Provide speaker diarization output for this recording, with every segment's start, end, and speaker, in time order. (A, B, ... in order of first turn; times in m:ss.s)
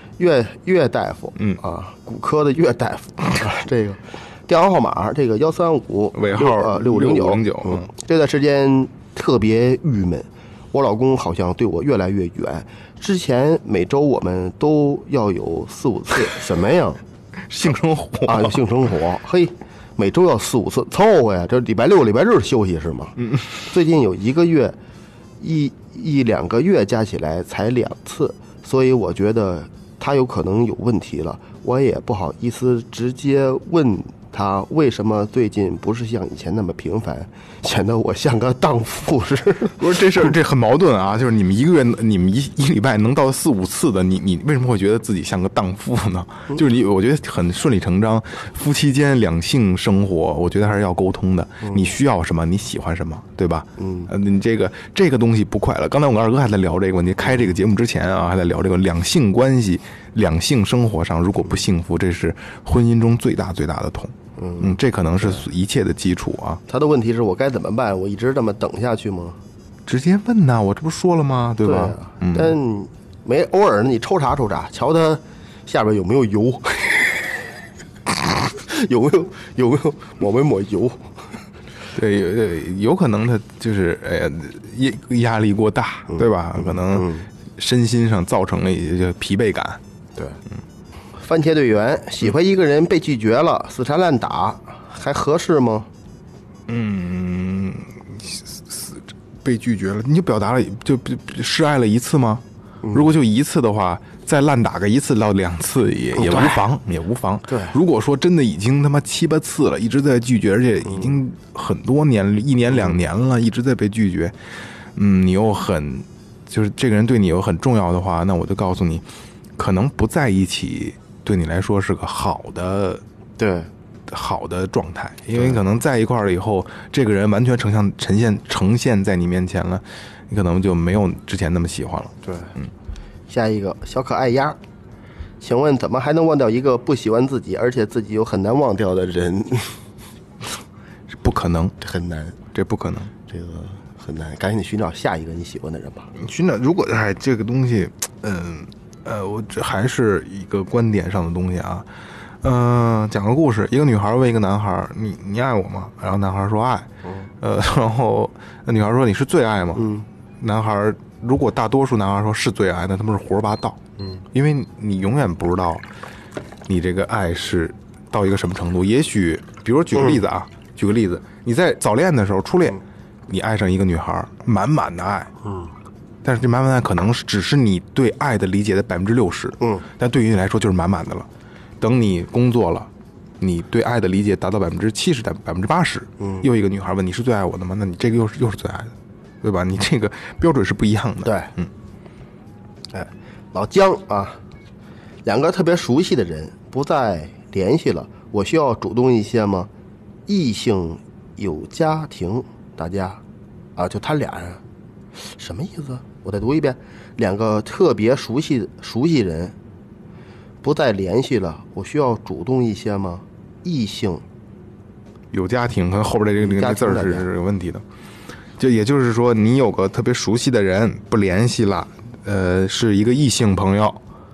0:00.2-0:17.0 A
0:06.1-0:07.9 B
0:17.4-0:18.6 B
0:18.2-0:24.8 A
0:25.4-0:39.8 A
0:39.8-1:06.6 B
0:53.8-0:54.1 A
1:04.4-1:04.8 A
1:06.7-1:09.4 A
1:09.8-1:12.5 B
1:11.6-1:17.4 A
1:18.0-1:21.0 A
1:21.9-1:29.8 B
1:26.1-1:27.3 A
1:31.2-1:35.9 A
1:36.7-1:54.3 B
1:42.8-1:43.1 A
1:46.1-1:46.6 A
1:47.5-1:47.7 A
1:50.9-1:51.1 A
1:54.9-1:59.0 B
1:59.6-2:03.0 B
2:03.4-2:03.7 A
2:04.1-2:12.6 B
2:12.2-2:12.5 A
2:13.3-2:14.6 A
2:15.4-2:19.8 A
2:21.1-2:21.8 B
2:21.8-2:22.4 A
2:22.5-2:23.1 B
2:23.3-2:26.1 A
2:26.1-2:31.9 B
2:32.4-2:36.9 B
2:37.4-2:43.8 B
2:39.8-2:40.0 A
2:44.3-2:45.8 B
2:46.7-2:55.3 B
2:56.2-3:01.3 B
2:59.6-2:59.8 A
3:01.8-3:11.7 B
3:06.2-3:06.4 A
3:11.2-3:11.5 A
3:12.9-3:14.4 A
3:15.2-3:19.7 A
3:20.3-3:23.2 A
3:23.8-3:24.6 A
3:25.2-3:29.5 A
3:30.6-3:34.2 A
3:35.3-3:37.8 B
3:36.4-3:37.3 A
3:38.6-3:44.0 B